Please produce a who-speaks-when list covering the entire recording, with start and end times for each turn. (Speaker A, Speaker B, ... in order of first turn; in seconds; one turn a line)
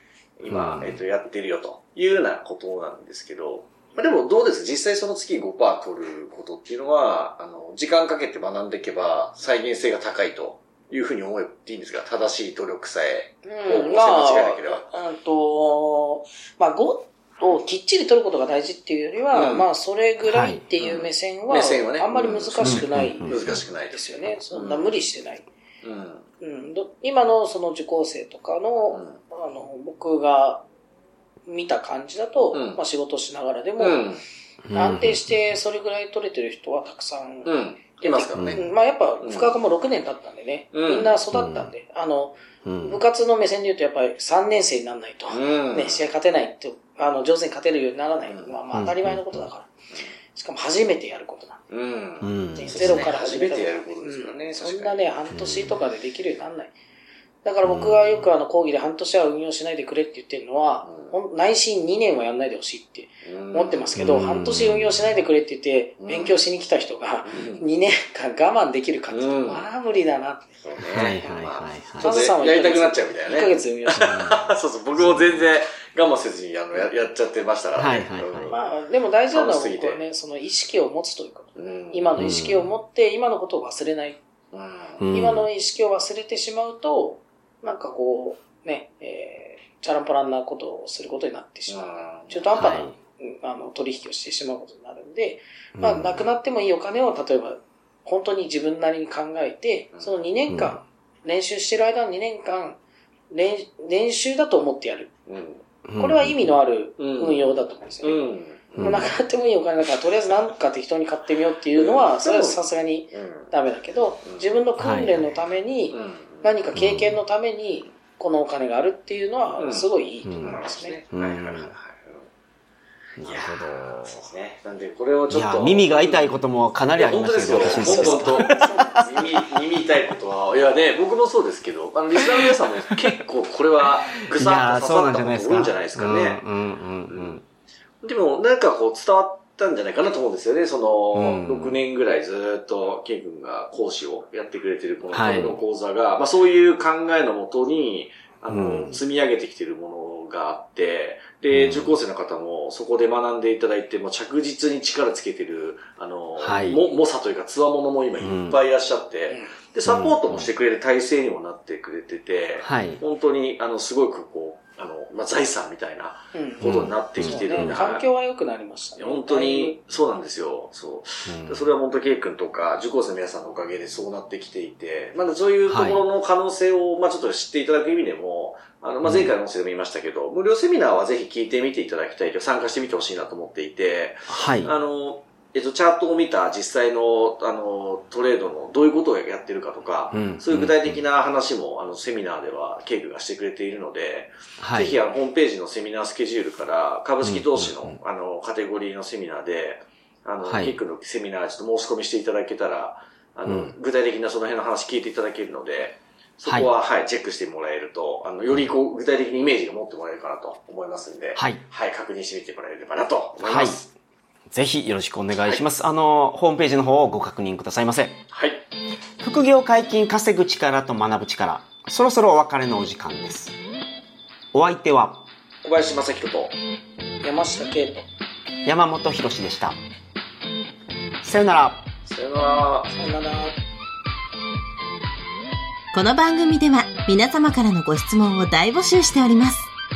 Speaker A: 0.4-14.9
Speaker B: 0.5-1.0
Speaker C: 13.4-25.5
Speaker A: 19.3-19.7
Speaker B: 20.3-20.6
Speaker A: 20.8-24.9
Speaker B: 22.6-23.6
Speaker A: 25.8-26.2
Speaker C: 26.4-30.6
Speaker A: 28.9-29.2
Speaker C: 31.5-34.1
Speaker A: 32.5-32.8
Speaker A: 33.8-34.2
Speaker B: 34.7-35.4
Speaker C: 34.7-49.7
Speaker A: 37.4-38.6
Speaker B: 38.4-38.6
Speaker A: 39.2-39.5
Speaker A: 40.7-41.1
Speaker B: 41.3-41.7
Speaker B: 42.6-43.0
Speaker A: 45.3-46.0
Speaker B: 48.7-49.4
Speaker C: 50.3-51.7
Speaker A: 51.7-55.0
Speaker B: 52.2-53.1
Speaker C: 52.5-56.7
Speaker B: 55.3-55.8
Speaker C: 57.4-70.6
Speaker B: 57.6-58.3
Speaker A: 60.9-61.1
Speaker A: 63.2-64.0
Speaker B: 64.0-65.2
Speaker A: 66.0-66.4
Speaker A: 67.3-67.6
Speaker A: 69.1-69.6
Speaker A: 70.6-78.6
Speaker B: 70.9-72.2
Speaker C: 72.0-74.2
Speaker B: 74.0-75.5
Speaker B: 77.8-78.5
Speaker C: 78.5-84.2
Speaker A: 79.3-80.0
Speaker A: 81.6-82.3
Speaker B: 82.2-82.7
Speaker A: 84.5-85.0
Speaker B: 85.0-85.5
Speaker C: 85.1-102.8
Speaker A: 91.7-92.4
Speaker B: 92.5-92.9
Speaker B: 95.8-96.2
Speaker B: 100.5-100.8
Speaker C: 103.3-105.1
Speaker A: 105.3-105.6
Speaker B: 105.9-106.6
Speaker C: 106.0-121.0
Speaker A: 107.0-107.4
Speaker A: 108.0-109.1
Speaker B: 108.8-109.1
Speaker A: 111.7-112.6
Speaker A: 113.1-113.5
Speaker A: 114.2-114.5
Speaker B: 114.8-115.3
Speaker A: 115.9-116.5
Speaker B: 116.8-117.2
Speaker A: 119.6-119.9
Speaker B: 120.2-120.6
Speaker A: 120.4-122.2
Speaker B: 121.1-121.7
Speaker B: 123.2-124.2
Speaker A: 123.2-126.3
Speaker B: 125.3-128.6
Speaker A: 127.0-136.4
Speaker C: 127.6-129.4
Speaker B: 134.3-137.4
Speaker A: 137.1-137.4
Speaker A: 138.0-168.1
Speaker B: 141.1-141.8
Speaker B: 145.1-145.6
Speaker B: 148.5-149.0
Speaker B: 151.5-152.0
Speaker B: 156.4-156.8
Speaker B: 158.2-158.6
Speaker B: 159.9-160.5
Speaker B: 162.6-163.0
Speaker C: 166.3-169.8
Speaker B: 166.6-167.8
Speaker A: 169.0-213.9
Speaker B: 171.2-171.7
Speaker B: 175.7-176.0
Speaker B: 179.0-179.3
Speaker B: 184.3-184.7
Speaker B: 190.1-191.0
Speaker B: 194.6-195.0
Speaker B: 197.2-198.0
Speaker B: 200.4-200.8
Speaker B: 203.4-203.7
Speaker B: 211.3-211.6
Speaker B: 213.4-213.8
Speaker B: 214.5-218.2
Speaker A: 218.3-218.6
Speaker B: 219.2-223.6
Speaker B: 224.5-225.2
Speaker A: 225.6-226.6
Speaker C: 227.2-228.1
Speaker B: 228.6-229.8
Speaker B: 231.2-231.8
Speaker A: 232.1-232.9
Speaker C: 232.9-233.6
Speaker D: 235.9-239.7